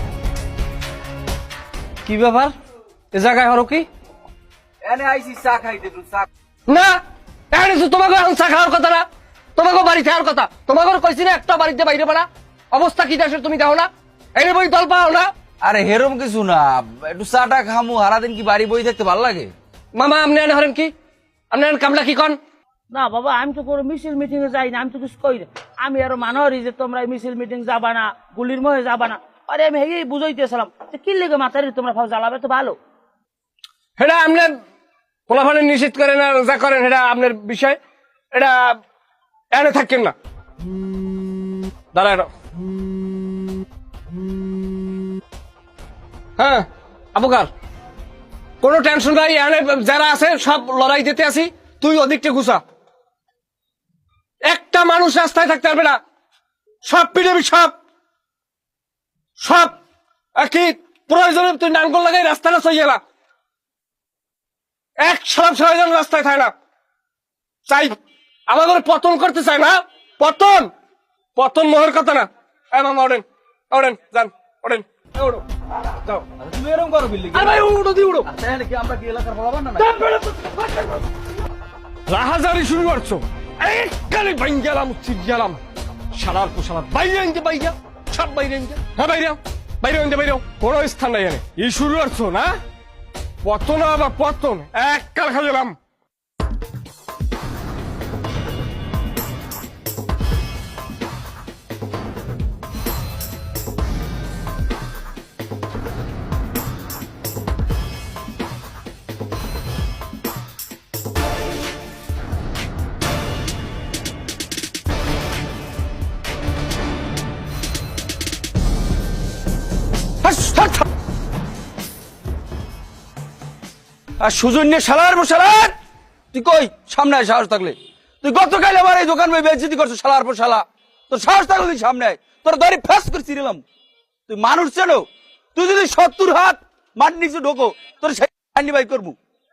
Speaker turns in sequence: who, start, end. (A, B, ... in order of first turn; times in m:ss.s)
0:02.0-0:02.5 A
0:03.1-0:03.9 A
0:04.8-0:06.3 B
0:06.7-0:07.0 A
0:07.5-0:15.3 A
0:15.6-0:19.5 B
0:19.9-0:20.9 A
0:21.5-0:22.4 A
0:22.9-0:32.8 C
0:34.0-0:34.5 A
0:35.3-0:37.8 A
0:38.3-0:38.8 A
0:39.5-0:40.1 A
0:41.9-0:42.3 A
0:46.4-0:47.5 A
0:48.6-0:52.6 A
0:54.4-0:56.0 A
0:56.8-0:57.7 A
0:59.4-0:59.8 A
1:00.4-1:03.0 A
1:05.0-1:06.5 A
1:07.6-1:08.0 A
1:08.5-1:10.7 A
1:11.4-1:15.4 A
1:16.2-1:17.6 B
1:17.3-1:18.3 A
1:18.2-1:19.9 B
1:19.8-1:21.0 A
1:22.1-1:32.6 A
1:33.4-1:35.8 A
2:00.2-2:00.8 B
2:04.2-2:05.7 B
2:06.3-2:13.6 B
2:14.3-2:19.2 B